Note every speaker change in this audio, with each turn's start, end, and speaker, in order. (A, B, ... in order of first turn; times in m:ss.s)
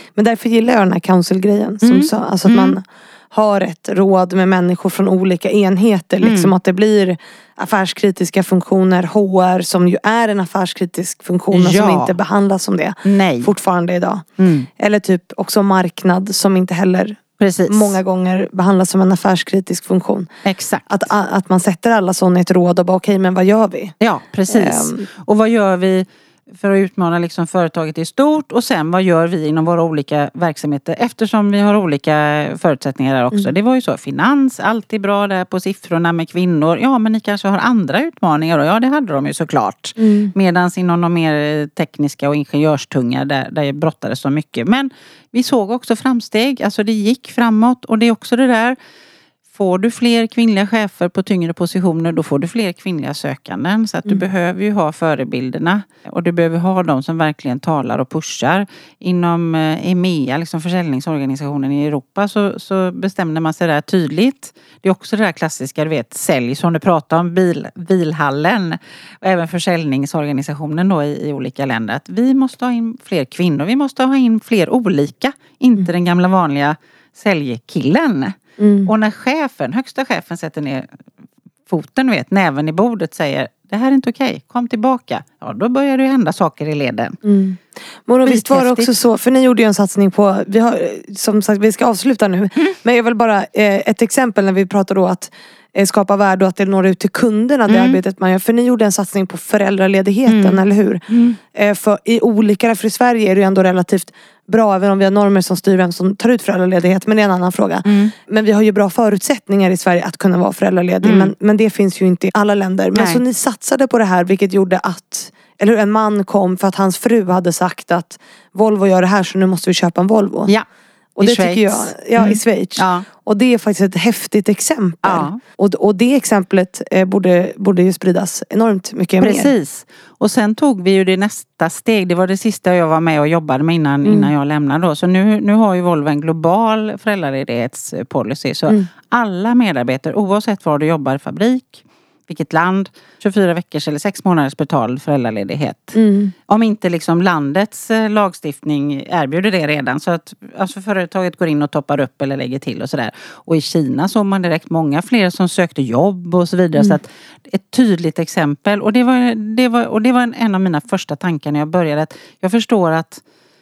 0:00.1-0:14.2 A
0:01.8-0:02.8 B
0:06.2-0:06.5 B
0:11.5-0:12.2 B
0:13.0-0:13.5 B
0:14.4-0:14.7 B
0:14.8-0:20.3 A
0:17.4-0:18.0 B
0:20.4-0:20.9 B
0:20.9-0:23.9 A
0:24.0-0:48.8 B
0:24.5-0:25.0 A
0:40.0-0:40.3 A
0:49.5-1:20.9 B
1:18.6-1:18.9 A
1:21.7-1:27.2 B
1:27.2-2:00.5 A
1:28.2-1:28.9 B
1:37.7-1:38.0 B
1:40.2-1:41.4 B
1:47.8-1:48.1 B
1:51.0-1:51.3 B
1:52.9-1:53.2 B
2:01.2-2:09.5 A
2:01.2-2:03.1 B
2:05.0-2:05.4 B
2:09.2-2:43.2 B
2:14.0-2:14.3 A
2:25.9-2:26.3 A